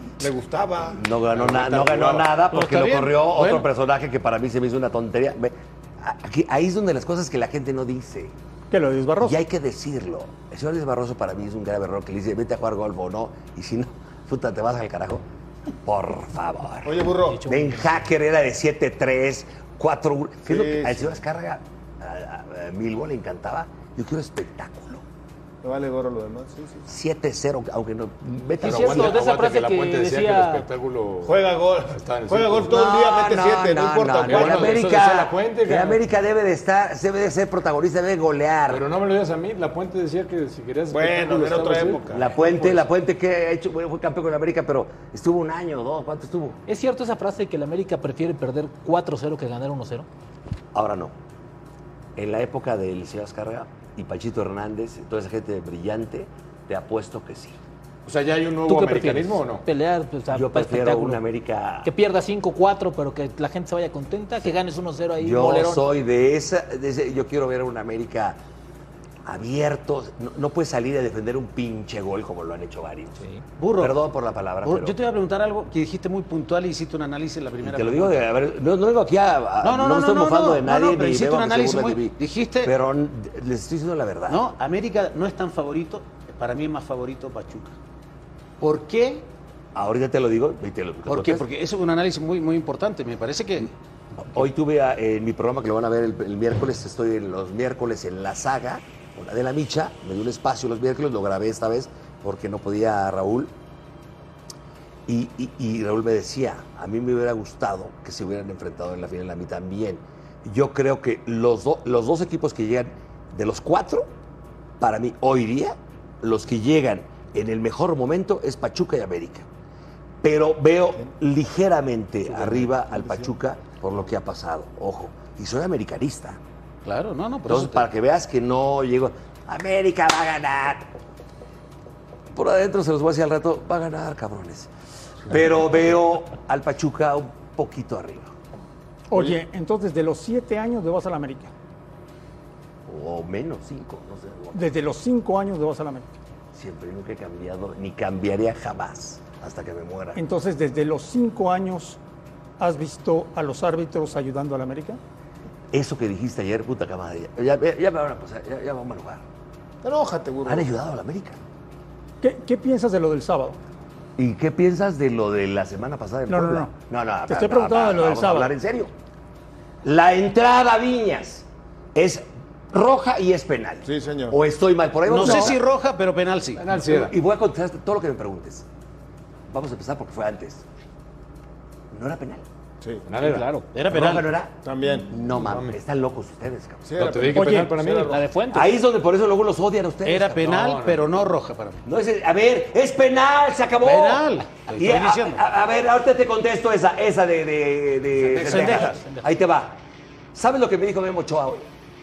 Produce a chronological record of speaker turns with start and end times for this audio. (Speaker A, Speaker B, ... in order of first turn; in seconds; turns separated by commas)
Speaker A: 0.2-2.2, Speaker B: 0.9-8.3, Speaker C: 2.5-3.7, Speaker D: 2.6-3.1, Speaker E: 8.7-9.4, Speaker B: 9.2-15.2, Speaker B: 15.8-25.0, Speaker A: 16.8-17.4, Speaker D: 17.2-18.1, Speaker A: 20.4-21.2, Speaker A: 25.6-26.9, Speaker B: 26.9-29.2, Speaker D: 28.6-30.7, Speaker F: 28.6-32.7, Speaker A: 31.2-34.8, Speaker B: 32.7-38.9, Speaker F: 34.2-36.0, Speaker F: 38.7-42.9, Speaker A: 40.9-42.3, Speaker B: 42.1-46.6, Speaker D: 46.7-50.1, Speaker B: 50.7-51.1, Speaker B: 52.1-57.6, Speaker F: 58.0-59.6, Speaker D: 58.6-61.2, Speaker B: 60.3-61.9, Speaker D: 61.8-65.9, Speaker B: 65.2-68.4, Speaker B: 69.2-73.2, Speaker C: 73.6-74.0, Speaker B: 73.8-75.0, Speaker C: 74.6-78.2, Speaker B: 77.6-84.4, Speaker C: 79.6-82.7, Speaker C: 84.3-87.8, Speaker C: 88.6-89.3, Speaker B: 89.7-91.4, Speaker C: 91.0-93.7, Speaker B: 94.3-103.5, Speaker B: 105.1-114.1, Speaker B: 114.8-119.5, Speaker B: 120.2-126.4, Speaker A: 122.3-123.3, Speaker C: 126.8-127.9, Speaker B: 127.5-130.9, Speaker B: 132.3-134.7, Speaker B: 135.2-138.3, Speaker E: 139.1-141.5, Speaker B: 142.8-144.6, Speaker E: 144.5-146.1, Speaker B: 146.5-150.2, Speaker E: 150.2-152.0, Speaker E: 152.6-155.0, Speaker B: 155.7-159.2, Speaker A: 159.8-160.7, Speaker B: 160.4-161.4, Speaker E: 162.2-163.6, Speaker B: 164.2-168.9, Speaker E: 166.3-166.7, Speaker E: 167.3-168.5, Speaker B: 169.8-175.6, Speaker A: 173.8-174.4, Speaker C: 175.0-176.7, Speaker F: 176.6-177.2, Speaker B: 176.7-178.7, Speaker B: 179.5-180.6, Speaker B: 181.9-182.4, Speaker A: 182.8-183.1, Speaker F: 183.0-183.4, Speaker D: 183.2-183.8, Speaker C: 183.7-184.4, Speaker B: 183.9-187.1, Speaker A: 184.6-185.2, Speaker F: 185.3-185.8, Speaker A: 186.8-188.2, Speaker F: 187.0-188.2, Speaker E: 187.3-187.7, Speaker D: 188.0-188.8, Speaker B: 188.5-190.6, Speaker C: 190.0-191.8, Speaker F: 190.4-191.2, Speaker B: 191.8-199.8, Speaker C: 193.8-195.4, Speaker D: 198.2-199.3, Speaker C: 198.3-199.0, Speaker B: 200.3-201.7